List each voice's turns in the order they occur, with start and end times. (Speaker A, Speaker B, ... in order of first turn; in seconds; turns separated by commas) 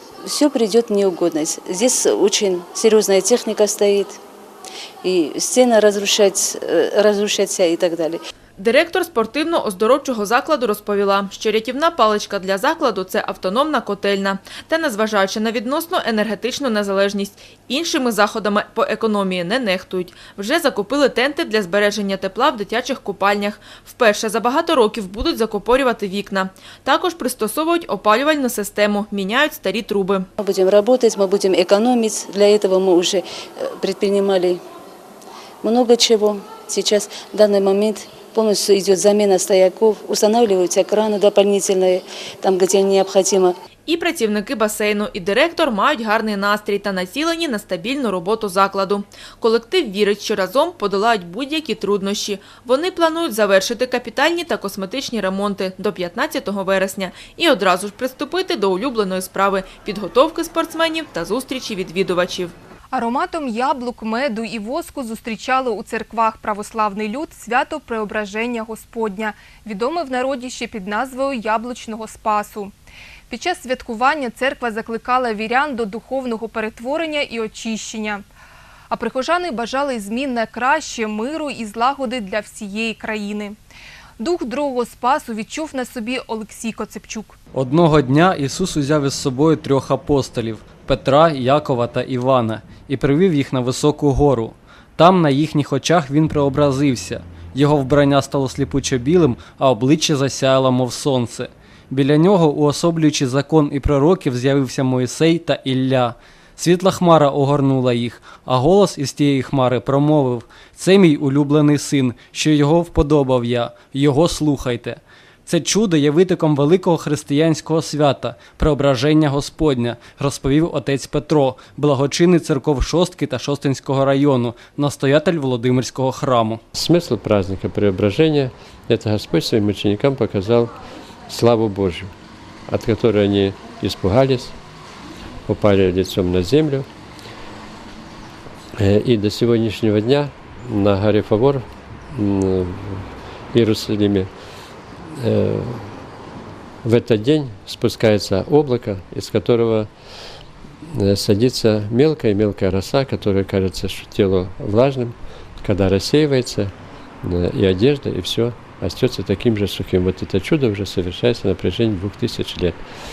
Speaker A: 0.3-4.2, Speaker A: 5.0-8.2, Speaker B: 8.6-30.3, Speaker A: 30.4-34.6, Speaker A: 35.6-43.5, Speaker B: 43.9-62.5, Speaker C: 62.9-72.7, Speaker C: 73.3-78.2, Speaker C: 78.9-83.6, Speaker C: 84.2-87.4, Speaker D: 87.5-126.6, Speaker E: 126.7-130.7, Speaker E: 131.3-132.1, Speaker E: 132.7-134.6, Speaker E: 135.5-136.9, Speaker E: 138.8-144.3, Speaker E: 145.1-145.9, Speaker E: 146.8-149.9, Speaker E: 150.9-156.7, Speaker E: 157.2-162.8